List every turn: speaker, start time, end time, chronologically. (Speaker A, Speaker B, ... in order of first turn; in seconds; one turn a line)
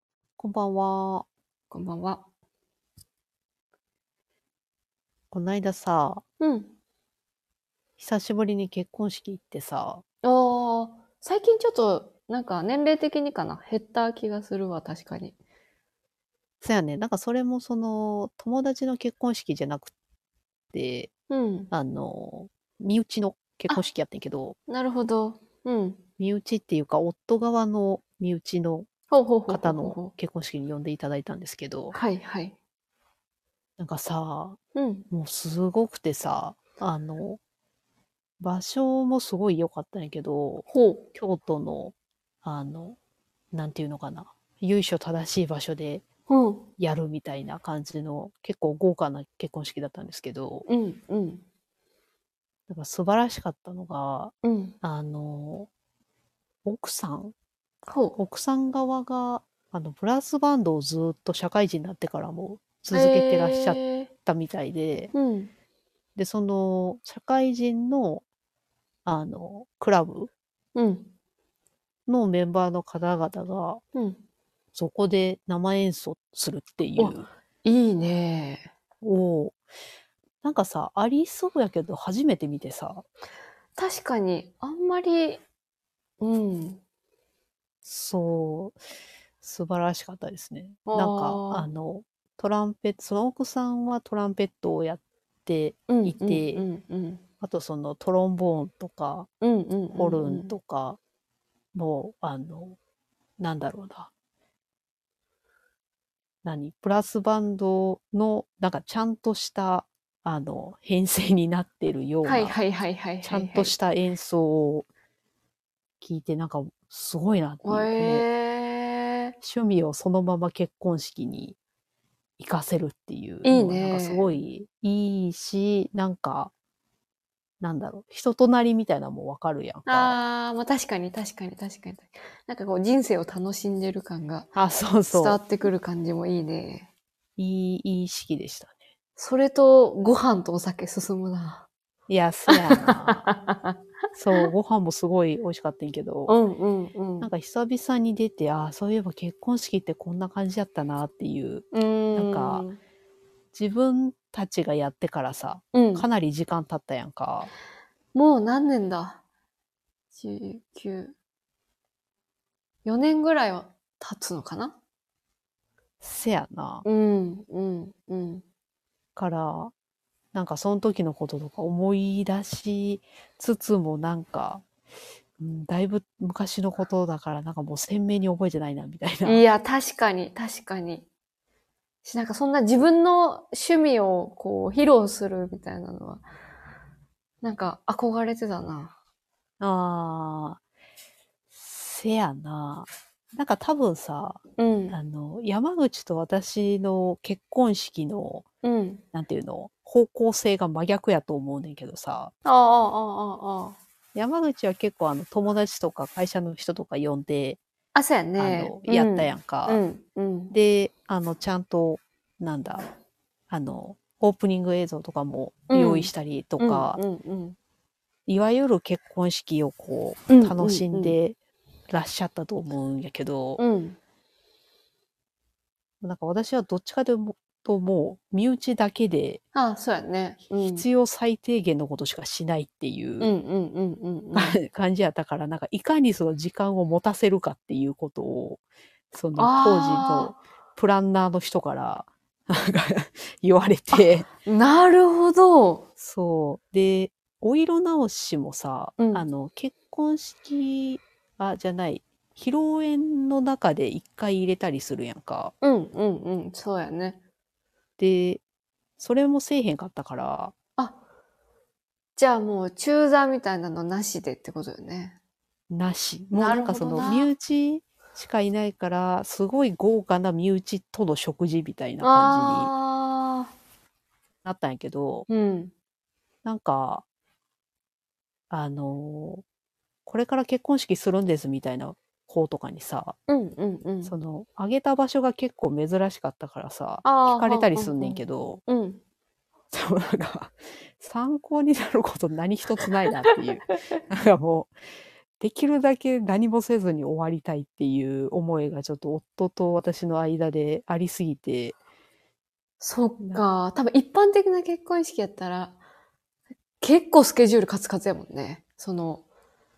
Speaker A: 0.4-1.3
Speaker B: 1.7-2.2
Speaker A: 5.3-6.2
Speaker B: 6.4-6.7
Speaker A: 8.0-10.0
Speaker B: 10.2-15.3
Speaker A: 16.6-19.9
Speaker A: 20.7-21.1
Speaker B: 21.3-21.7
Speaker A: 21.7-24.6
Speaker B: 24.7-26.0
Speaker A: 26.2-28.9
Speaker B: 29.1-30.1
Speaker A: 29.5-32.0
Speaker B: 31.9-32.6
Speaker A: 33.8-34.6
Speaker B: 34.8-35.1
Speaker A: 35.1-37.4
Speaker A: 38.4-43.0
Speaker B: 40.7-41.0
Speaker A: 43.5-46.0
Speaker B: 46.3-46.7
Speaker A: 46.8-50.7
Speaker B: 50.7-51.4
Speaker A: 52.7-55.7
Speaker B: 54.4-54.8
Speaker A: 56.6-57.3
Speaker B: 57.9-58.2
Speaker A: 58.2-65.1
Speaker B: 62.9-64.1
Speaker B: 65.1-65.5
Speaker A: 66.2-68.2
Speaker A: 69.1-70.3
Speaker B: 70.8-71.1
Speaker A: 72.1-73.8
Speaker B: 74.0-74.2
Speaker A: 74.8-77.3
Speaker B: 77.0-78.7
Speaker A: 79.0-79.6
Speaker A: 80.4-83.0
Speaker B: 83.8-85.4
Speaker B: 86.2-86.8
Speaker A: 87.8-88.8
Speaker A: 89.4-96.7
Speaker B: 90.9-91.7
Speaker B: 95.9-97.2
Speaker A: 97.4-99.3
Speaker B: 99.4-100.5
Speaker A: 99.9-101.0
Speaker A: 101.7-102.8
Speaker A: 103.4-104.1
Speaker A: 106.4-112.6
Speaker B: 112.2-113.8
Speaker A: 113.2-114.9
Speaker A: 116.0-118.2
Speaker B: 117.6-119.3
Speaker A: 119.4-121.6
Speaker A: 122.4-126.5
Speaker B: 123.4-124.4
Speaker A: 127.6-130.2
Speaker B: 129.9-134.5
Speaker A: 134.6-135.4
Speaker B: 135.1-136.9
Speaker A: 137.4-138.8
Speaker B: 139.2-141.7
Speaker A: 142.1-143.3
Speaker B: 142.5-143.8
Speaker A: 144.2-146.4
Speaker B: 146.3-147.3
Speaker A: 147.2-152.7
Speaker B: 151.7-152.8
Speaker A: 153.5-157.5
Speaker B: 155.7-156.1
Speaker B: 158.1-159.2
Speaker B: 160.1-161.1
Speaker B: 162.8-164.8
Speaker A: 166.0-166.8
Speaker B: 166.8-168.4
Speaker A: 169.2-169.7
Speaker A: 170.3-174.7
Speaker A: 175.4-179.4
Speaker B: 179.2-181.1
Speaker B: 182.0-186.2
Speaker B: 187.4-188.9
Speaker A: 189.6-190.6
Speaker A: 191.5-194.4
Speaker B: 194.6-195.0
Speaker A: 194.9-198.5
Speaker B: 198.6-199.0
Speaker A: 199.1-202.3
Speaker B: 202.4-203.8
Speaker A: 204.2-207.6
Speaker B: 207.9-210.5
Speaker A: 208.4-209.8
Speaker A: 210.5-212.9
Speaker A: 213.5-217.0
Speaker B: 215.7-217.6
Speaker A: 218.3-221.4
Speaker B: 220.3-221.2
Speaker A: 221.9-223.6
Speaker B: 223.6-224.0
Speaker A: 226.0-229.4
Speaker B: 229.5-230.8
Speaker A: 230.7-233.3
Speaker B: 233.2-234.6
Speaker A: 234.3-244.3
Speaker B: 239.4-240.4
Speaker B: 243.9-245.8
Speaker A: 246.0-255.5
Speaker B: 249.0-249.3
Speaker B: 255.6-257.2
Speaker A: 258.0-258.4
Speaker A: 259.0-260.5
Speaker B: 262.2-265.2
Speaker A: 265.7-272.7
Speaker B: 266.3-267.3
Speaker B: 272.0-273.5
Speaker A: 274.4-275.3
Speaker B: 275.3-275.7
Speaker A: 276.4-277.0
Speaker A: 278.5-279.4
Speaker A: 280.1-283.2
Speaker B: 283.3-284.1
Speaker A: 284.0-288.6
Speaker B: 287.0-289.0
Speaker A: 289.7-294.7
Speaker A: 295.4-301.8
Speaker B: 302.8-305.8
Speaker B: 306.8-309.2